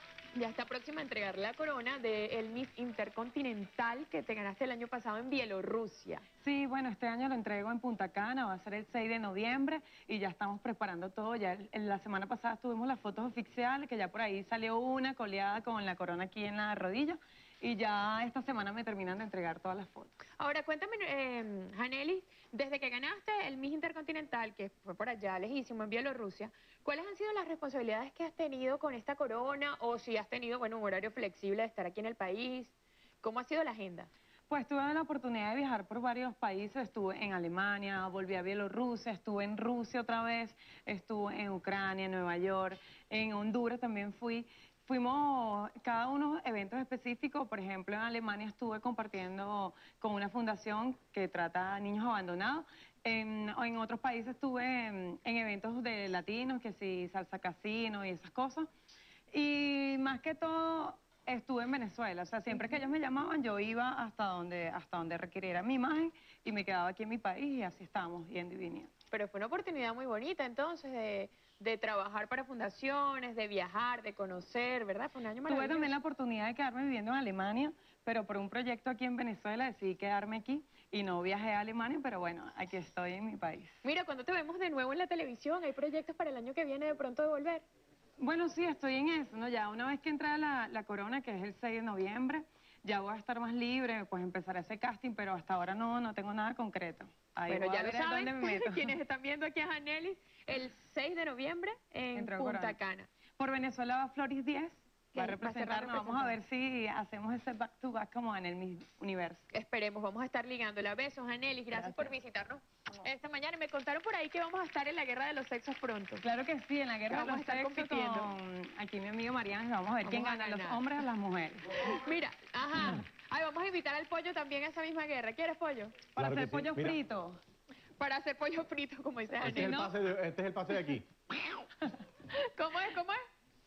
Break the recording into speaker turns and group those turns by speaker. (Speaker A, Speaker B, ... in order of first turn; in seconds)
Speaker A: 0.3-6.2, 20.4-34.1, 69.1-75.9, 83.8-87.6, 97.5-103.1, 105.1-106.4, 109.5-116.2, 117.1-118.3, 120.0-120.8, 121.7-126.0, 128.0-129.9, 132.2-133.2
Speaker B: 6.4-20.1, 34.5-58.7, 59.3-68.9, 75.4-83.8, 88.2-99.0, 102.1-102.8, 103.4-109.4, 111.7-112.1, 116.2-121.9, 126.2-127.4
Speaker C: 126.2-127.0, 129.4-131.1